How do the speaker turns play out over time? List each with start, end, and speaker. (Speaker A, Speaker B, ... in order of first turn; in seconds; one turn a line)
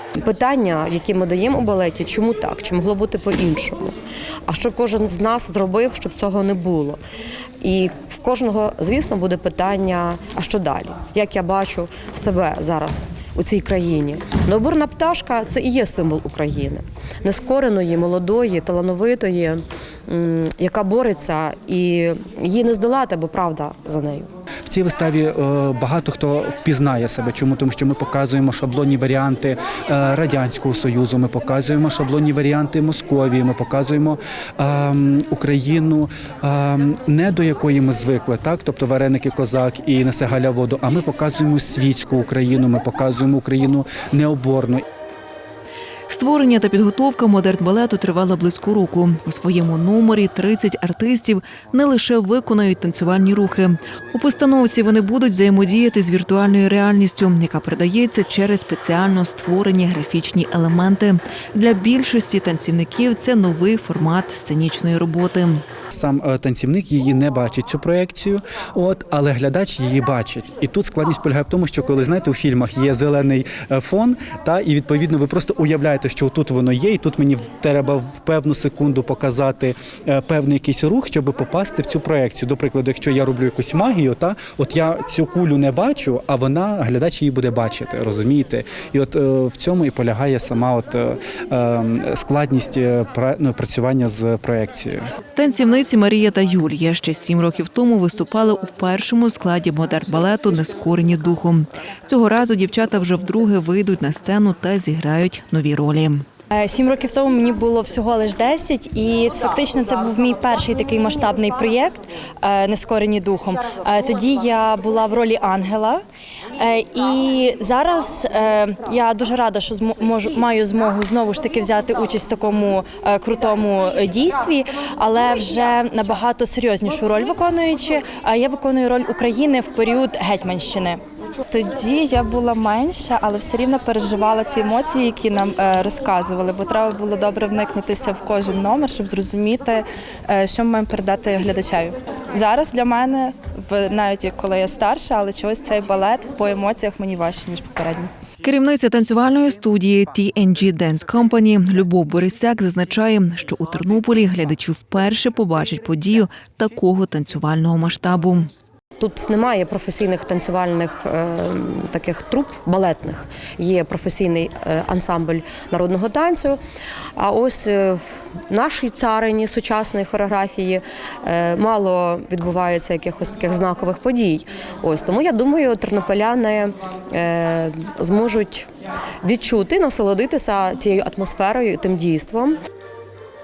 Speaker A: 0.2-4.0
Speaker A: 4.5-7.0
Speaker A: 7.6-24.3
Speaker B: 24.7-44.8
Speaker C: 46.1-65.6
Speaker B: 65.9-95.1
Speaker C: 95.3-106.2
Speaker D: 106.5-116.0
Speaker D: 116.5-131.0
Speaker E: 131.5-148.1
Speaker C: 148.4-158.5
Speaker A: 159.0-166.6
Speaker A: 167.2-178.7
Speaker A: 179.2-182.6